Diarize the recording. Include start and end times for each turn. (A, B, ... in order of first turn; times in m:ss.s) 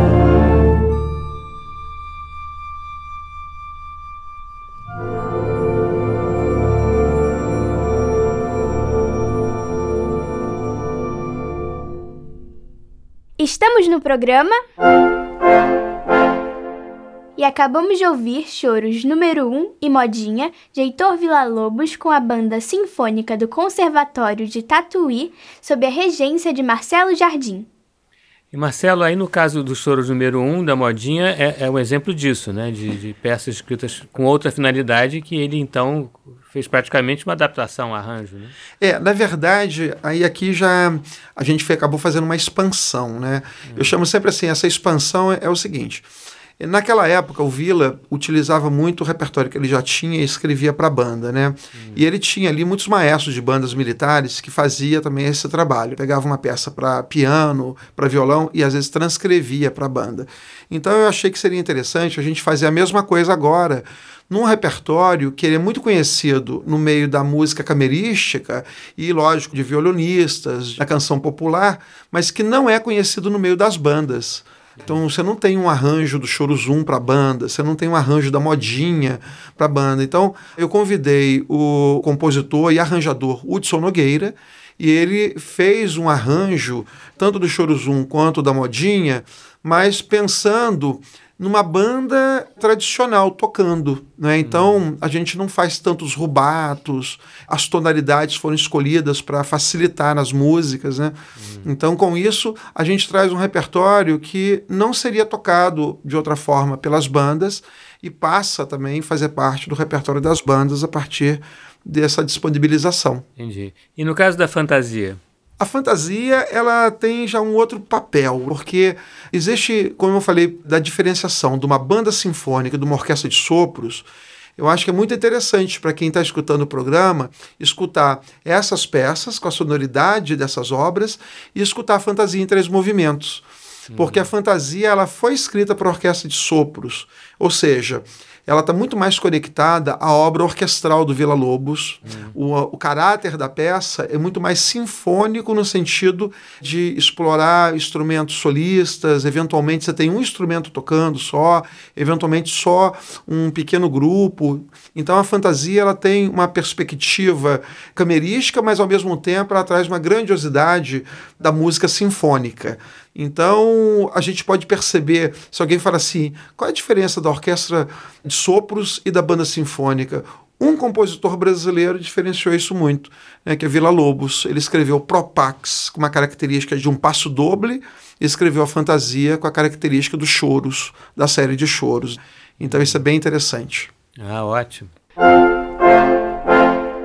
0:13.4-0:14.6 A
0:17.4-0:27.7 A
0:28.5-0:38.5 B
0:38.8-0:46.0 C
0:43.7-0:43.9 B
0:46.6-1:53.2 C
0:51.7-0:52.0 B
1:34.4-1:34.8 B
1:41.4-1:41.7 B
1:53.4-1:55.2 B
1:55.6-3:03.9 C
2:13.9-2:14.3 B
2:22.0-2:22.3 B
3:02.6-3:02.9 B
3:04.2-3:04.9 B